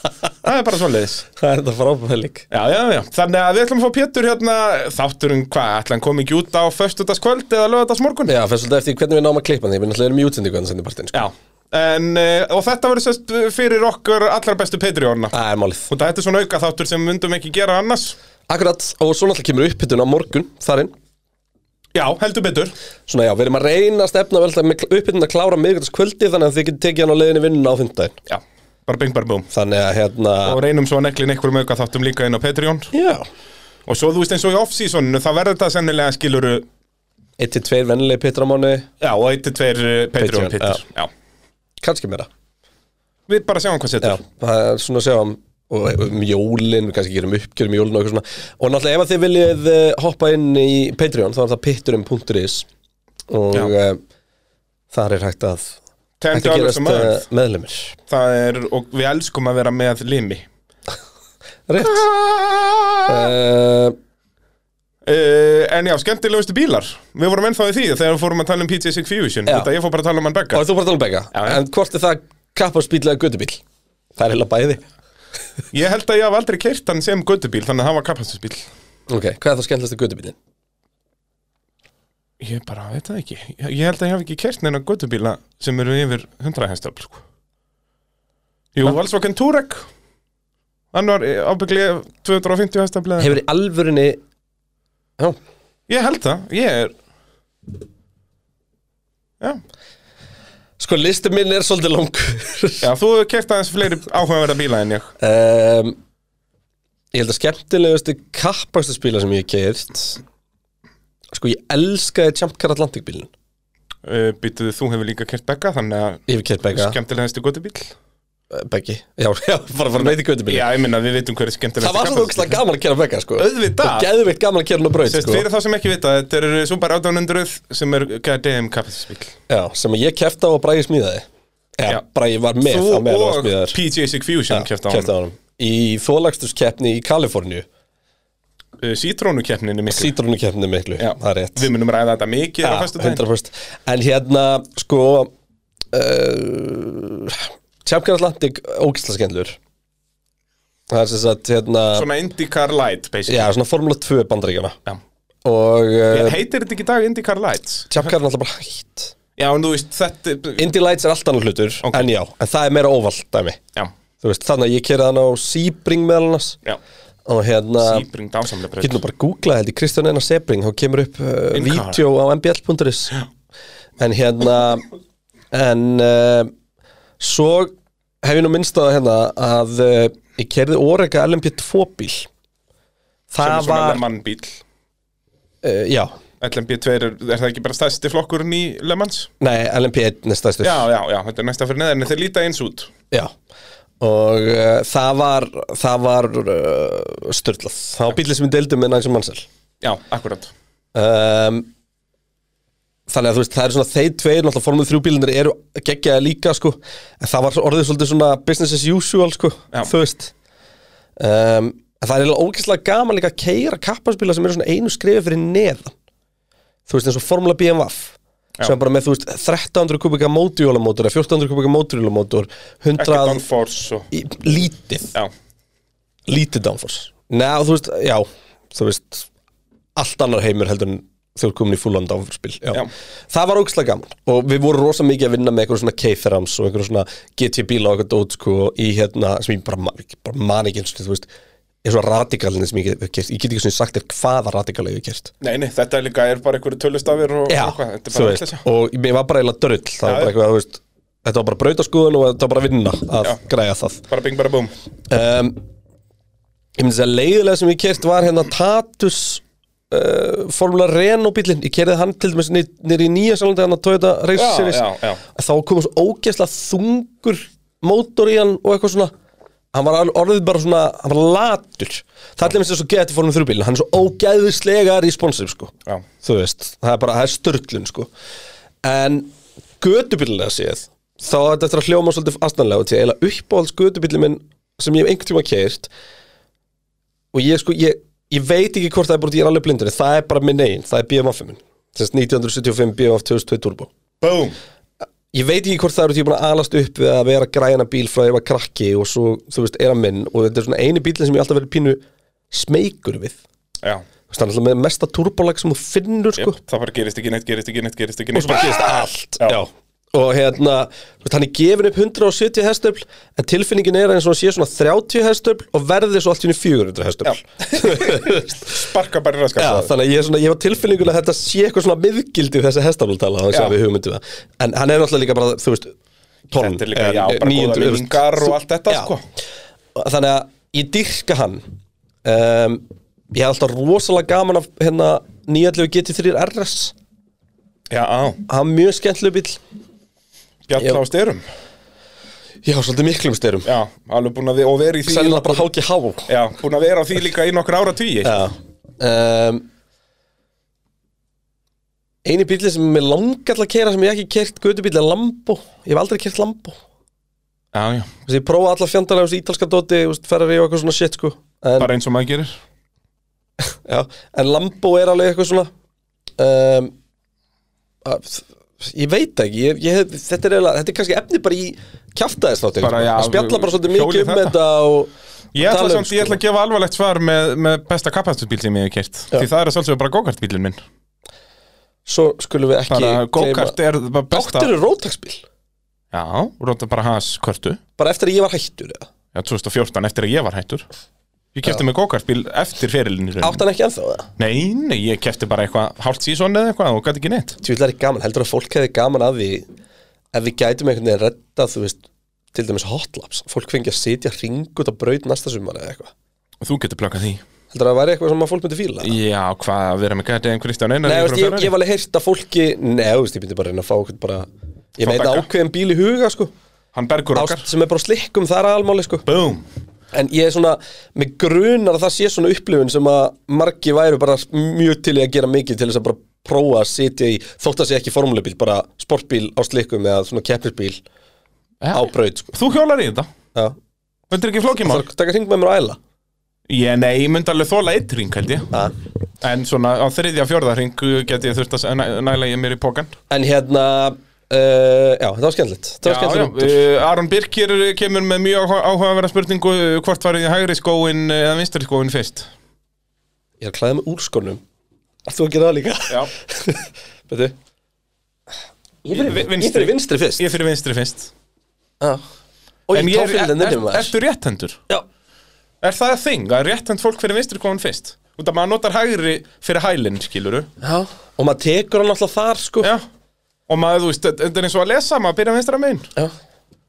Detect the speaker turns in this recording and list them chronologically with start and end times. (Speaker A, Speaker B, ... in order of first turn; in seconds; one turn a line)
Speaker A: 0.4-1.2
Speaker B: 1.4-2.5
Speaker A: 2.5-8.3
Speaker B: 8.3-11.2
Speaker A: 11.1-15.3
Speaker B: 15.3-15.9
Speaker A: 15.9-18.1
Speaker B: 18.5-20.9
Speaker A: 21.9-22.7
Speaker B: 23.1-28.1
Speaker A: 28.3-29.5
Speaker B: 29.5-30.6
Speaker A: 30.4-32.9
Speaker B: 32.9-33.3
Speaker A: 33.9-36.7
Speaker B: 37.4-38.9
Speaker A: 39.0-41.1
Speaker B: 40.2-40.8
Speaker B: 41.8-42.3
Speaker A: 43.3-44.2
Speaker B: 44.0-52.7
Speaker B: 53.3-54.0
Speaker B: 54.9-55.8
Speaker A: 56.2-57.2
Speaker B: 56.3-58.0
Speaker A: 58.1-60.5
Speaker B: 61.7-62.0
Speaker A: 61.8-63.1
Speaker B: 63.0-64.0
Speaker A: 65.0-70.6
Speaker B: 69.5-69.7
Speaker B: 70.5-73.6
Speaker A: 71.3-71.6
Speaker B: 74.2-74.8
Speaker A: 75.7-78.7
Speaker B: 79.1-80.3
Speaker A: 82.4-87.2
Speaker A: 88.7-89.8
Speaker A: 90.9-93.4
Speaker B: 93.2-94.2
Speaker A: 95.9-96.9
Speaker B: 100.8-102.9
Speaker A: 102.8-105.1
Speaker B: 105.2-106.0
Speaker B: 107.1-110.2
Speaker B: 111.3-113.3
Speaker A: 114.0-117.9
Speaker B: 116.3-117.0
Speaker B: 118.5-120.7
Speaker A: 120.0-122.6
Speaker B: 121.8-125.4
Speaker A: 123.4-124.1
Speaker A: 125.0-129.3
Speaker B: 129.5-131.2
Speaker B: 131.8-133.8
Speaker A: 132.6-135.1
Speaker B: 134.5-137.7
Speaker A: 138.8-140.1
Speaker B: 139.9-141.7
Speaker A: 141.0-143.2
Speaker B: 142.6-145.3
Speaker B: 145.9-149.6
Speaker B: 150.9-152.1
Speaker A: 151.9-153.5
Speaker B: 153.3-154.8
Speaker B: 155.4-156.4
Speaker A: 156.1-158.0
Speaker B: 157.9-159.1
Speaker A: 159.4-160.7
Speaker B: 160.6-163.6
Speaker A: 161.8-162.1
Speaker B: 164.2-166.6
Speaker B: 167.3-168.1
Speaker A: 167.8-169.0
Speaker B: 168.8-173.2
Speaker A: 171.5-172.0
Speaker B: 174.0-174.9
Speaker B: 175.5-176.5
Speaker B: 177.2-182.3
Speaker B: 183.3-184.0
Speaker A: 183.4-184.6
Speaker B: 185.6-186.1
Speaker A: 186.4-189.3
Speaker B: 189.4-190.9
Speaker A: 190.6-192.9
Speaker B: 194.0-199.4
Speaker A: 199.8-200.5
Speaker B: 200.9-201.7
Speaker B: 203.1-210.3
Speaker B: 211.2-215.9
Speaker B: 216.9-223.4
Speaker A: 223.0-224.1
Speaker B: 224.1-225.1
Speaker B: 226.3-229.3
Speaker B: 229.9-241.3
Speaker B: 241.8-245.3
Speaker A: 245.4-248.6
Speaker B: 247.5-254.0
Speaker A: 250.0-250.3
Speaker A: 254.1-254.7
Speaker B: 255.1-255.6
Speaker B: 256.8-269.1
Speaker A: 264.3-265.2
Speaker B: 269.7-278.1
Speaker B: 278.8-285.9
Speaker B: 287.3-293.9
Speaker A: 294.2-294.5
Speaker B: 295.3-303.4
Speaker B: 304.3-306.6
Speaker A: 306.4-308.9
Speaker B: 308.3-318.8
Speaker A: 317.2-319.9
Speaker B: 319.6-325.9
Speaker A: 323.5-323.8
Speaker A: 326.5-329.2
Speaker B: 326.5-329.1
Speaker B: 329.9-331.6
Speaker B: 332.2-336.9
Speaker A: 337.9-338.4
Speaker B: 338.5-339.6
Speaker A: 340.7-341.4
Speaker B: 340.8-341.0
Speaker B: 342.6-343.7
Speaker A: 343.6-345.7
Speaker B: 345.1-346.3
Speaker A: 346.3-348.4
Speaker B: 348.2-349.6
Speaker B: 352.2-356.8
Speaker A: 357.7-358.1
Speaker B: 358.2-361.9
Speaker A: 361.8-362.6
Speaker B: 363.7-365.7
Speaker B: 366.4-366.9
Speaker B: 368.0-376.4
Speaker A: 372.8-374.5
Speaker A: 375.5-380.8
Speaker B: 382.1-383.8
Speaker A: 382.9-384.7
Speaker B: 384.3-385.4
Speaker A: 386.1-387.8
Speaker B: 388.0-389.1
Speaker A: 389.3-390.9
Speaker A: 391.5-393.6
Speaker B: 393.4-394.3
Speaker A: 394.4-397.6
Speaker B: 397.6-399.7
Speaker B: 400.3-406.1
Speaker A: 406.6-407.4
Speaker B: 407.7-409.1
Speaker A: 409.0-411.7
Speaker B: 411.0-416.5
Speaker A: 415.0-415.5
Speaker A: 416.9-417.7
Speaker B: 417.3-419.3
Speaker A: 419.2-419.6
Speaker B: 420.1-431.0
Speaker A: 431.8-433.3
Speaker B: 431.9-432.5
Speaker A: 434.3-435.0
Speaker B: 434.8-436.0
Speaker A: 436.7-438.7
Speaker A: 439.4-443.1
Speaker B: 443.3-446.8
Speaker A: 446.0-452.5
Speaker B: 453.6-454.6
Speaker B: 455.2-457.5
Speaker B: 459.0-460.4
Speaker A: 459.1-461.3
Speaker B: 462.9-464.1
Speaker A: 462.9-464.8
Speaker A: 465.8-470.7
Speaker B: 470.8-472.9
Speaker A: 472.8-473.1
Speaker A: 473.7-476.1